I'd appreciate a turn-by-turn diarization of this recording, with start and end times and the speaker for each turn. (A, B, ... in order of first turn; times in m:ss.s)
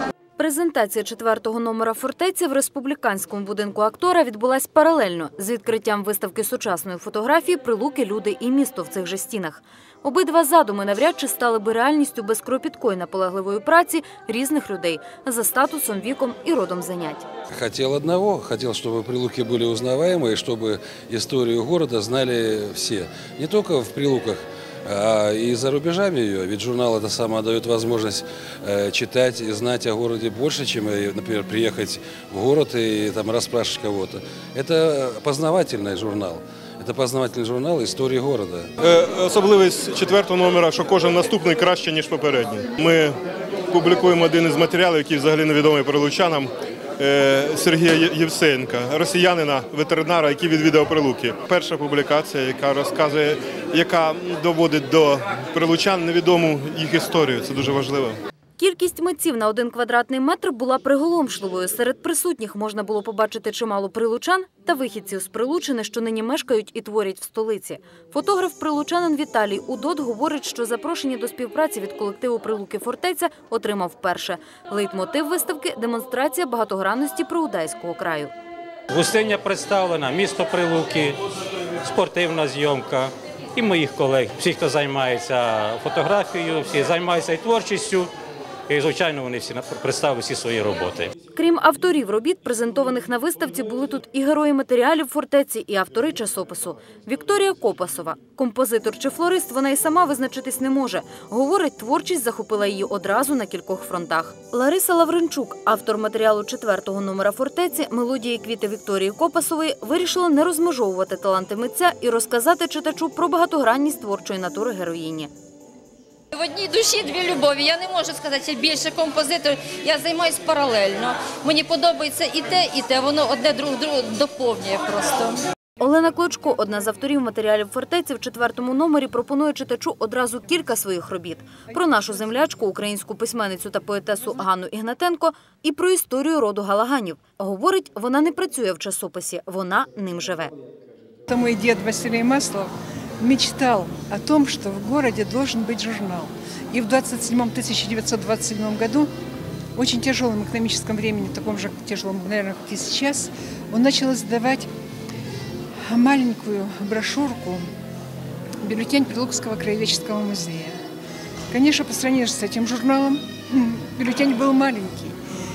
0:00.4-0:17.2 A
0:17.5-0:38.7 B
0:38.8-0:43.2 C
0:43.7-0:58.2 C
0:58.6-1:18.3 A
1:18.9-1:21.2 D
1:21.8-1:28.1 D
1:28.7-1:31.1 D
1:31.3-1:55.3 A
1:56.3-2:05.4 E
2:05.8-2:20.5 A
2:21.3-2:29.1 F
2:29.8-2:34.7 F
2:35.8-2:37.6 F
2:38.6-2:40.8 F
2:41.5-2:45.2 F